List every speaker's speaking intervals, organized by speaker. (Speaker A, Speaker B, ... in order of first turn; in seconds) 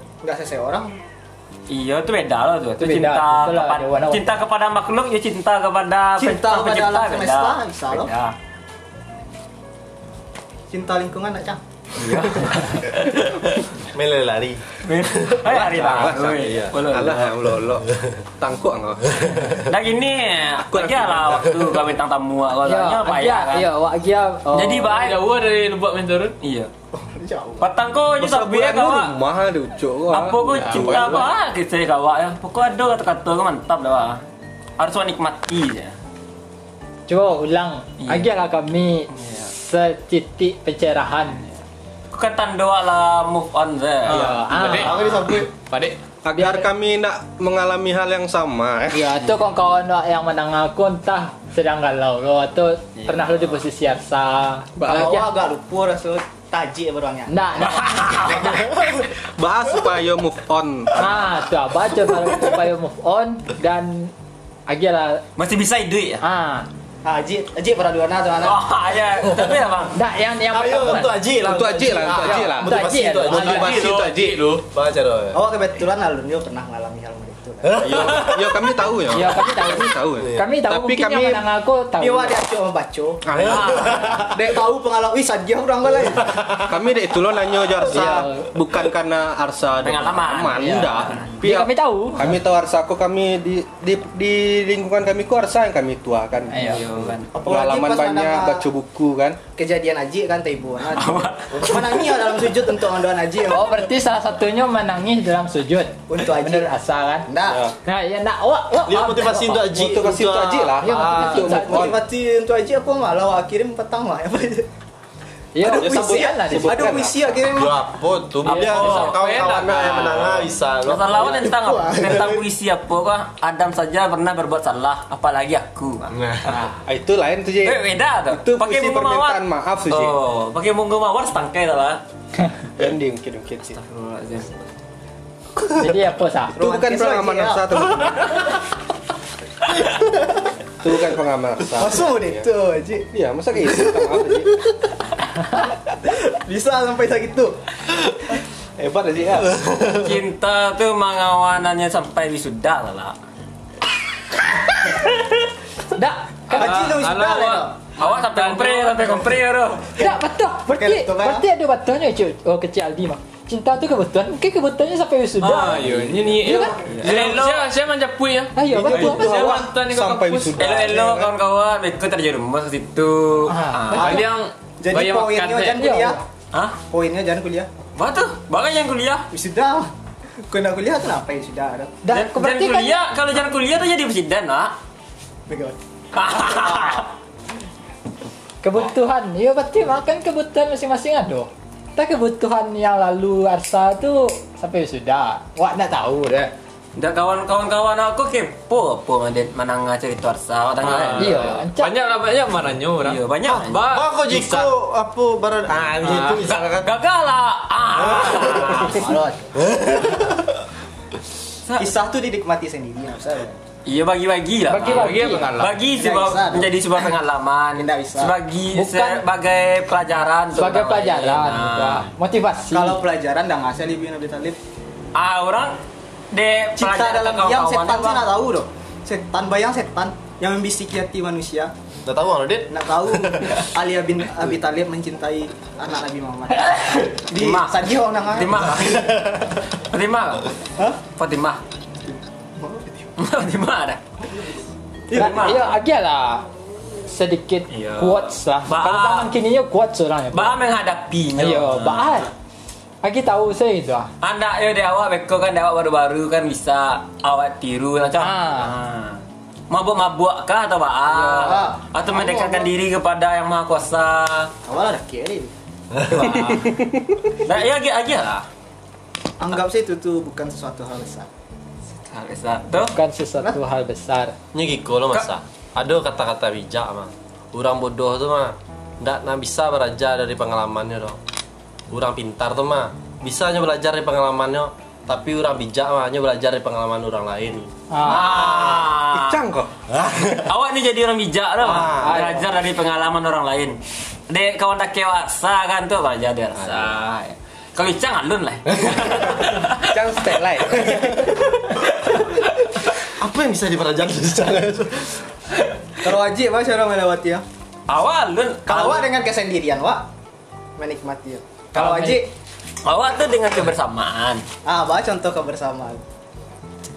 Speaker A: 0.2-0.9, 6.2-8.1, 10.7-11.6, 26.9-27.7, 44.7-45.5, 54.9-58.7, 67.0-68.6, 75.3-77.9, 82.0-83.2, 83.9-86.4, 97.3-98.6, 99.6-103.8, 106.1-106.7, 107.3-107.7, 110.8-114.7, 115.6-117.9, 121.1-122.4, 136.6-137.9, 141.8-143.1, 145.9-147.6, 156.5-157.8, 160.7-161.4, 173.9-176.2, 176.9-177.7, 179.3-179.9, 180.5-182.0, 185.5-187.1, 208.3-209.5, 211.8-213.6, 215.9-216.7, 217.8-218.3, 222.7-224.6, 226.8-231.7, 232.7-238.7, 242.1-243.1, 245.1-245.5, 261.1-262.7, 264.7-265.5, 269.4-271.3, 306.0-307.4, 308.7-310.1, 310.8-312.3, 314.6-316.0
Speaker B: 1.7-8.3, 12.0-13.7, 14.8-17.3, 19.7-23.7, 24.5-25.2, 26.4-26.7, 27.6-29.2, 30.1-34.2, 34.8-36.0, 39.2-39.5, 42.1-44.3, 57.8-58.5, 65.4-66.2, 68.4-70.0, 89.8-91.3, 96.5-97.3, 100.9-102.3, 118.5-119.2, 120.8-126.8, 127.6-132.0, 133.7-134.6, 149.9-153.2, 157.2-159.9, 166.9-167.7, 170.6-174.2, 178.0-179.3, 182.1-184.8, 186.1-187.1, 197.0-201.6, 203.0-204.0, 206.5-209.1, 213.8-222.1, 225.1-225.8, 226.3-228.3, 237.3-239.1, 239.9-240.5, 241.2-241.6, 243.2-244.0, 245.1-245.7, 247.7-249.3, 250.3-252.2, 254.2-264.5, 266.1-266.8, 267.4-268.4, 271.9-272.9, 288.0-289.4, 290.4-293.8, 294.3-300.0, 307.9-309.1, 311.8-312.2, 312.8-314.4
Speaker C: 2.8-4.3, 22.6-25.1, 37.1-41.4, 44.1-45.0, 46.4-46.7, 48.9-55.3, 57.3-58.4, 61.0-64.1, 64.7-65.2, 66.2-66.7, 70.0-71.2, 72.2-73.7, 79.1-82.4, 87.9-88.5, 91.4-92.3, 96.5-96.8, 103.5-107.3, 107.9-109.6, 110.8-111.9, 115.5-117.0, 135.8-136.6, 155.9-156.7, 160.0-166.8, 168.6-169.6, 173.5-174.2, 175.8-176.2, 182.0-183.1, 188.6-196.5, 201.2-202.0, 214.7-215.6, 218.7-219.2, 220.6-223.0, 245.1-246.4, 247.1-250.6, 251.4-252.3, 253.0-254.1, 258.2-258.7, 272.8-274.4, 287.9-288.3, 292.0-292.4
Speaker D: 13.9-14.6, 15.2-17.0, 17.9-18.1, 19.2-19.6, 45.0-45.5, 70.5-73.9, 74.7-75.4, 77.6-78.6, 83.3-84.3, 108.8-110.8, 117.5-121.5, 126.1-126.7, 149.6-150.0, 203.5-206.9, 208.2-208.7, 209.6-210.4, 232.1-233.6, 238.7-239.5, 266.0-266.5, 274.5-281.2, 281.9-287.7, 289.9-290.4, 291.6-292.3, 296.6-296.9, 298.7-299.1, 303.2-305.2
Speaker E: 15.5-17.9, 18.4-19.6, 20.7-21.8, 28.2-31.3, 46.2-49.1, 54.8-55.2, 59.4-61.1, 71.4-74.5, 77.8-81.5, 83.3-84.6, 86.7-99.4, 109.7-112.0, 115.6-117.4, 126.8-130.2, 132.8-133.8, 136.6-138.4, 140.8-142.5, 143.1-144.5, 148.8-149.4, 168.7-171.3, 288.2-289.7, 299.9-301.4
Speaker F: 24.9-26.3, 30.6-31.3, 44.1-46.0, 73.3-74.6, 118.5-120.5, 156.6-159.4, 165.4-170.7, 173.9-175.9, 200.8-204.7, 206.0-206.4, 214.8-215.8